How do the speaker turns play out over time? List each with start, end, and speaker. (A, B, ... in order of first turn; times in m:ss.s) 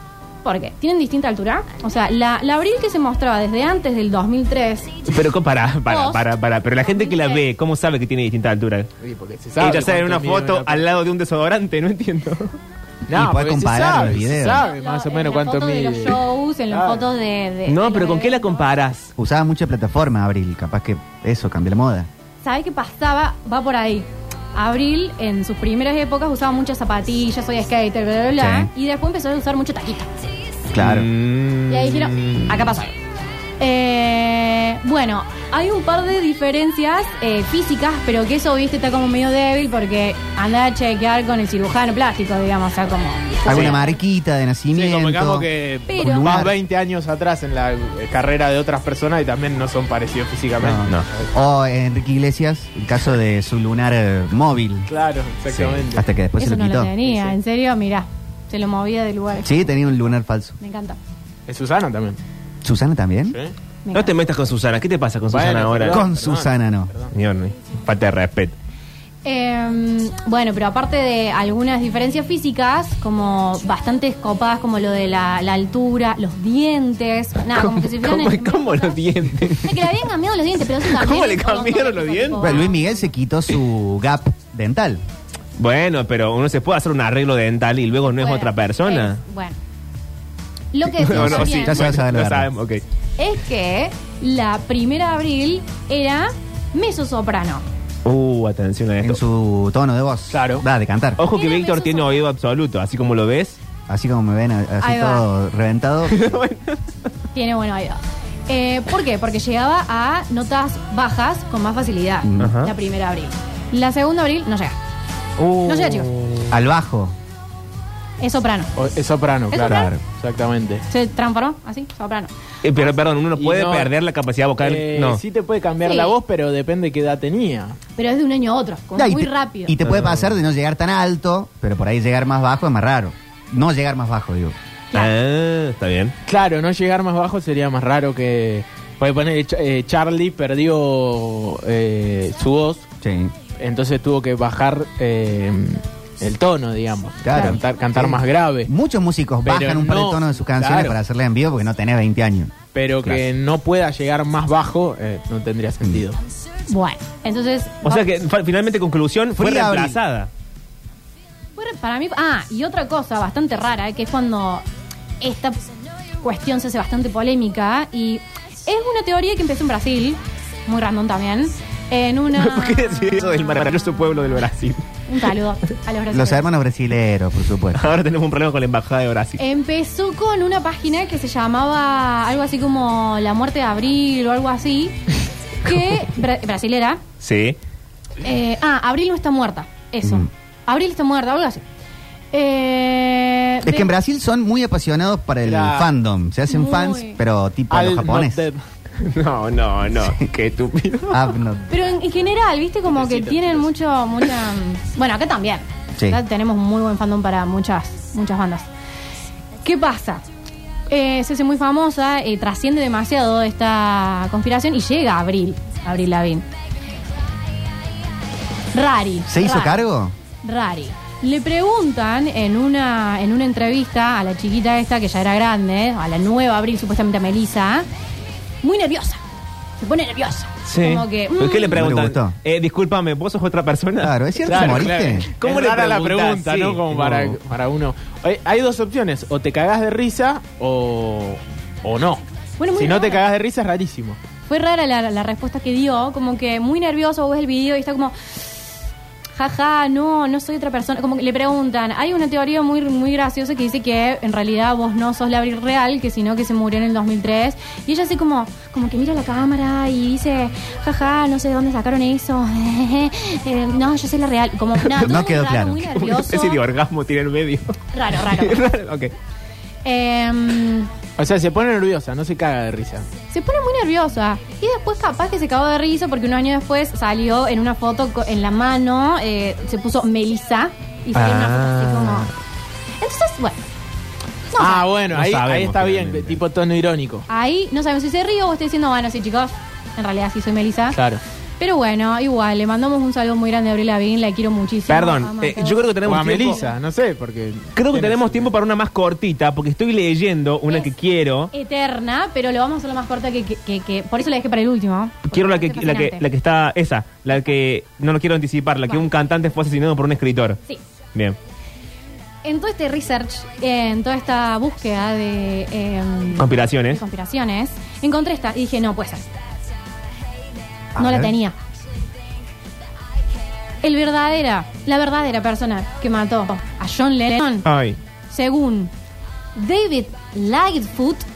0:00.4-0:05.1 A
0:05.1-0:08.9 B
0:05.9-0:06.3 A
0:06.8-0:07.4 A
0:09.0-0:10.8 C
0:09.6-0:12.6 B
0:13.1-0:17.1 C
0:13.1-0:14.7 D
0:14.5-0:18.6 A
0:17.7-0:19.1 B
0:19.2-0:22.1 D
0:22.4-0:30.1 A
0:28.4-0:28.7 D
0:30.7-0:31.1 D
0:30.8-0:32.8 B
0:31.7-0:32.9 A
0:33.6-0:43.9 A
0:43.4-0:46.6 D
0:44.7-0:50.9 C
0:45.9-0:46.4 A
0:50.6-0:54.9 D
0:54.9-0:56.1 C
0:55.5-0:55.8 B
0:55.9-0:56.9 D
0:56.4-0:59.6 A
0:57.0-0:57.3 C
0:59.4-1:00.6 D
1:00.6-1:01.0 A
1:01.5-1:02.2 C
1:02.6-1:03.4 D
1:03.8-1:04.1 A
1:03.9-1:06.1 B
1:05.3-1:07.1 C
1:05.9-1:06.9 D
1:07.1-1:08.5 B
1:09.2-1:22.9 A
1:17.6-1:19.9 B
1:20.8-1:22.6 B
1:22.4-1:25.0 D
1:25.6-1:29.2 B
1:28.0-1:29.6 A
1:30.7-1:31.8 A
1:31.0-1:32.8 B
1:31.1-1:32.5 D
1:33.2-1:37.6 A
1:38.0-1:39.2 B
1:39.0-1:41.2 D
1:40.3-1:40.6 C
1:41.2-1:43.6 B
1:41.3-1:42.2 A
1:43.9-1:46.2 D
1:44.8-1:45.2 A
1:46.1-1:46.8 B
1:47.4-1:54.8 A
1:52.2-1:52.6 D
1:52.4-1:52.7 B
1:55.4-1:56.5 B
1:55.6-1:56.1 A
1:56.5-1:57.1 D
1:58.2-1:58.7 A
1:58.8-2:00.8 C
1:59.5-1:59.9 A
1:59.6-2:00.0 D
2:00.9-2:02.3 A
2:02.6-2:05.2 B
2:03.4-2:03.9 C
2:04.6-2:07.8 C
2:05.8-2:06.1 A
2:08.0-2:09.8 A
2:09.0-2:14.6 D
2:09.9-2:10.1 C
2:14.9-2:16.1 B
2:16.3-2:22.9 C
2:23.0-2:23.3 D
2:23.6-2:28.7 C
2:27.2-2:33.2 D
2:29.4-2:31.0 C
2:32.7-2:36.2 C
2:36.7-2:38.1 A
2:37.8-2:40.3 B
2:39.4-2:40.0 D
2:41.6-2:44.6 A
2:45.2-2:45.6 A
2:46.2-2:53.2 A
2:52.3-2:54.8 B
2:55.1-2:56.5 A
2:56.1-2:57.8 D
2:57.7-2:59.4 B
2:59.4-3:05.0 A
3:05.6-3:07.0 A
3:07.2-3:07.6 B
3:08.2-3:11.6 A
3:12.3-3:13.9 A
3:13.6-3:18.4 D
3:15.4-3:15.9 C
3:16.5-3:17.2 A
3:17.7-3:18.6 C
3:19.0-3:21.4 B
3:20.0-3:20.3 D
3:21.1-3:21.8 D
3:21.7-3:28.6 A
3:22.9-3:23.7 C
3:29.6-3:30.2 A
3:30.9-3:36.4 A
3:38.7-3:39.8 A
3:39.3-3:40.1 D
3:40.4-3:47.9 A
3:48.6-3:49.2 A
3:49.8-3:51.8 A
3:50.6-3:57.4 B
3:51.7-3:52.4 D
3:54.0-3:55.3 D
3:54.4-4:02.2 C
4:02.6-4:03.2 A
4:02.8-4:04.2 C
4:04.5-4:08.6 A
4:09.4-4:26.6 A
4:24.8-4:25.2 B
4:25.0-4:25.9 D
4:25.9-4:29.1 B
4:27.9-4:28.6 A
4:29.8-4:30.9 A
4:31.2-4:33.1 C
4:33.3-4:42.3 A
4:41.1-4:42.3 B
4:43.0-4:43.6 A
4:44.5-4:44.9 A
4:44.6-4:47.3 C
4:45.1-4:46.4 B
4:47.3-4:51.0 A
4:50.9-4:51.2 C
4:51.6-4:56.7 A
4:54.9-4:56.6 B
4:56.0-4:58.5 C
4:57.8-5:01.5 B
5:01.5-5:06.2 A
5:05.3-5:10.6 B
5:12.4-5:19.2 A
5:16.4-5:17.0 B
5:20.9-5:21.3 D
5:21.0-5:21.6 A
5:23.8-5:27.7 A
5:27.6-5:28.0 B
5:28.3-5:28.9 A
5:29.6-5:31.3 A